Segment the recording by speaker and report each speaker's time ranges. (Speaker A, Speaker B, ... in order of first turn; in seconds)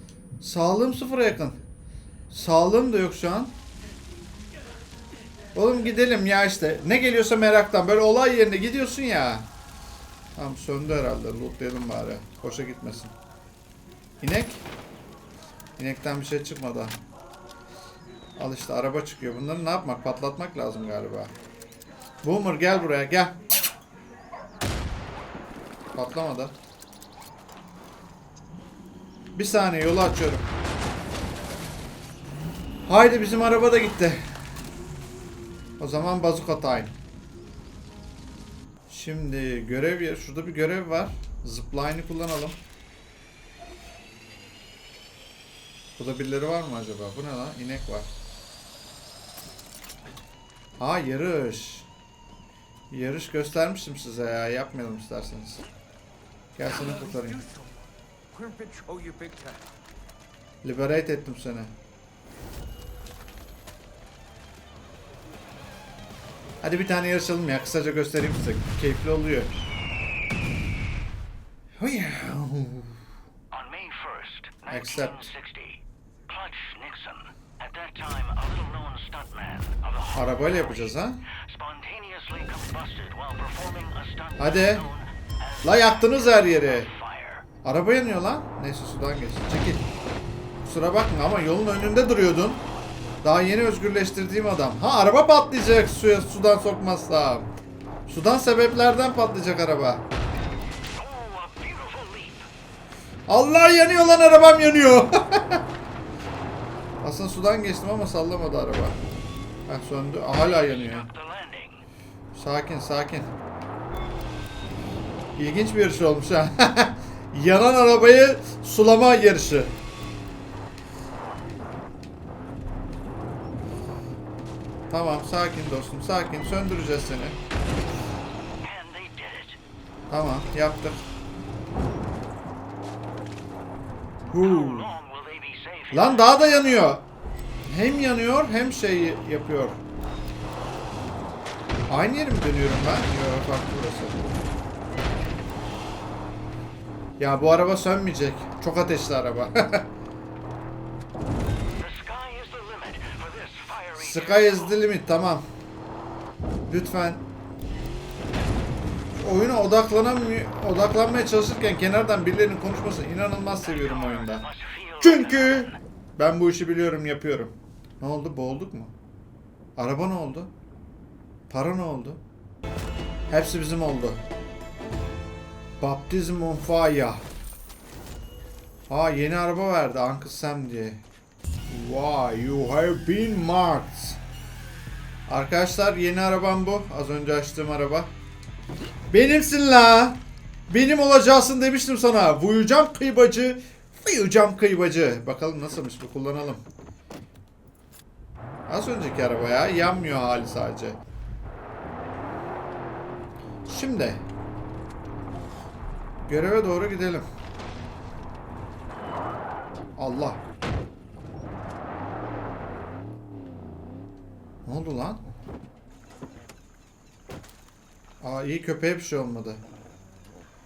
Speaker A: 0.4-1.6, 2.3-3.6, 5.5-9.5, 10.3-13.2, 14.2-14.7, 15.8-17.0, 18.4-21.3, 22.2-23.4, 25.9-26.6, 29.4-30.5, 32.9-34.2, 35.8-37.0, 38.9-42.6, 46.0-48.1, 50.8-51.9, 52.9-55.6, 56.6-57.4, 60.6-61.7, 66.6-69.5, 71.8-73.0, 74.7-75.3, 80.1-81.2, 84.4-84.9, 85.6-86.9, 87.6-89.9, 90.6-92.7, 93.2-97.5, 98.1-100.0, 103.3-105.7, 107.0-109.0, 109.7-111.1, 112.3-113.3, 115.4-119.7, 124.9-127.4, 130.1-131.0, 134.3-135.0, 135.9-137.1, 137.7-139.8, 141.9-144.2, 147.2-149.9, 153.9-155.4, 156.7-157.2, 159.2-164.5, 165.0-168.9, 169.8-170.5, 171.5-172.2, 173.3-174.2, 175.8-177.2, 178.9-181.0, 181.7-184.2, 185.3-188.1, 189.1-196.6, 198.7-201.0, 203.7-204.2, 206.3-207.3, 210.0-210.4, 214.7-215.2, 218.2-219.6
Speaker B: 56.7-57.7, 58.3-59.7, 73.5-80.5, 81.4-85.0, 87.0-87.4, 101.0-102.3, 110.9-111.8, 128.6-129.6, 134.4-136.3, 151.8-154.4, 164.2-165.8